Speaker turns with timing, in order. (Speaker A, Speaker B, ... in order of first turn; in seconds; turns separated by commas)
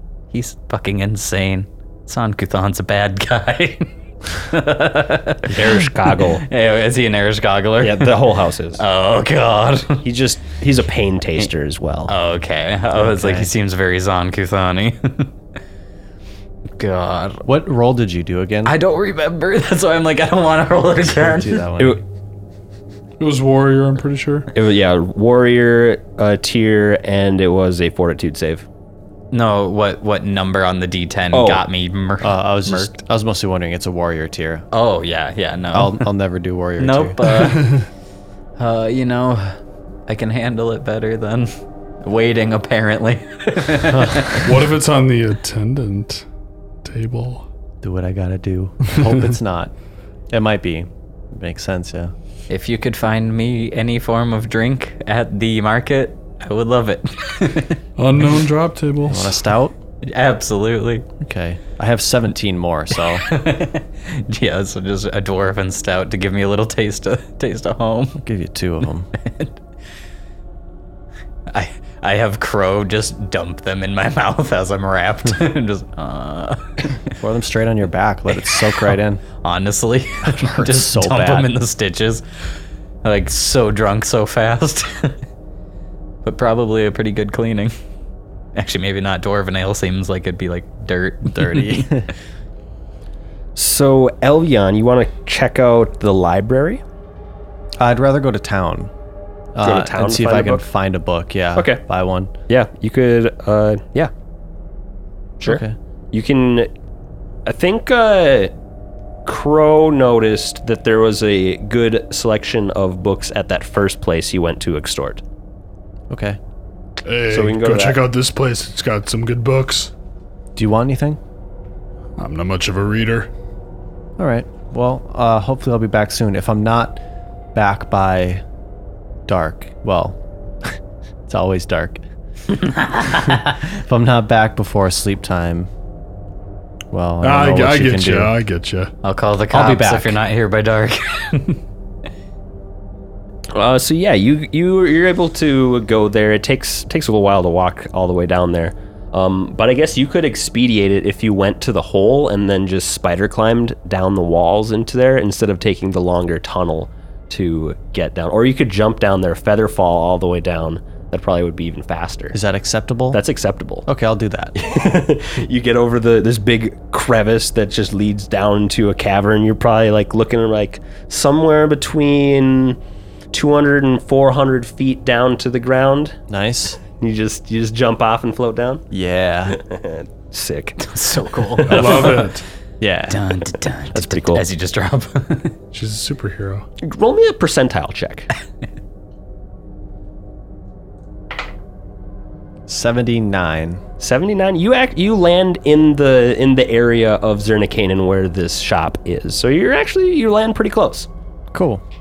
Speaker A: 0.3-8.2, Speaker B: 5.5-6.4, Speaker B: 7.8-8.8, Speaker A: 8.8-10.0, Speaker B: 10.0-12.1, Speaker A: 12.1-15.3, Speaker C: 13.1-13.5, Speaker A: 16.8-17.4, Speaker C: 17.4-18.7, Speaker A: 18.6-21.6, Speaker C: 21.1-22.0, Speaker D: 23.2-24.5, Speaker B: 24.5-28.7, Speaker A: 29.3-33.0, Speaker B: 31.3-31.6, Speaker C: 32.2-34.7, Speaker A: 34.7-36.1, Speaker C: 35.7-37.3, Speaker A: 36.8-37.8, Speaker D: 37.4-37.9, Speaker A: 38.6-41.5, Speaker A: 42.0-44.5, Speaker C: 43.9-44.3, Speaker D: 44.4-46.2, Speaker D: 46.8-47.5, Speaker C: 47.8-49.7, Speaker D: 49.0-49.2, Speaker C: 50.3-52.1, Speaker A: 52.5-57.8, Speaker D: 58.0-59.4, Speaker C: 59.1-59.8, Speaker A: 60.0-61.1, Speaker C: 61.2-63.2, Speaker A: 63.2-68.2, Speaker C: 68.2-69.1, Speaker A: 69.2-69.6, Speaker A: 71.5-77.0, Speaker C: 77.2-79.2, Speaker A: 79.4-82.2, Speaker C: 80.2-81.5, Speaker A: 83.0-85.2, Speaker A: 86.2-87.7, Speaker A: 88.6-92.1, Speaker C: 91.3-92.1, Speaker B: 93.5-96.8, Speaker C: 97.8-98.9, Speaker C: 99.5-102.3, Speaker B: 99.6-100.6, Speaker B: 101.6-101.8, Speaker B: 102.5-104.1, Speaker B: 105.4-106.7, Speaker C: 105.4-105.8, Speaker B: 107.5-108.5, Speaker B: 109.3-115.2, Speaker C: 116.1-116.4, Speaker D: 117.0-119.9, Speaker B: 117.3-118.0, Speaker C: 120.6-121.2, Speaker D: 122.2-123.3, Speaker C: 124.2-127.0, Speaker C: 127.5-128.4, Speaker C: 129.3-130.8, Speaker C: 131.3-132.0, Speaker A: 132.6-133.6, Speaker C: 133.1-135.7, Speaker C: 136.9-138.4, Speaker D: 137.2-138.9, Speaker A: 139.0-141.6, Speaker C: 139.5-140.2, Speaker B: 143.5-162.4, Speaker C: 162.3-163.2, Speaker B: 163.1-163.8, Speaker C: 163.8-164.7, Speaker B: 164.6-172.8, Speaker B: 173.3-176.2, Speaker C: 176.3-176.8, Speaker B: 176.9-178.8, Speaker C: 178.9-179.6, Speaker B: 179.5-182.3, Speaker A: 180.8-182.3, Speaker D: 181.7-182.4, Speaker C: 182.8-183.2, Speaker A: 183.1-185.6, Speaker B: 183.9-184.4, Speaker D: 185.7-186.7, Speaker B: 186.8-188.3, Speaker C: 192.7-193.8, Speaker B: 194.0-201.1, Speaker C: 201.5-201.8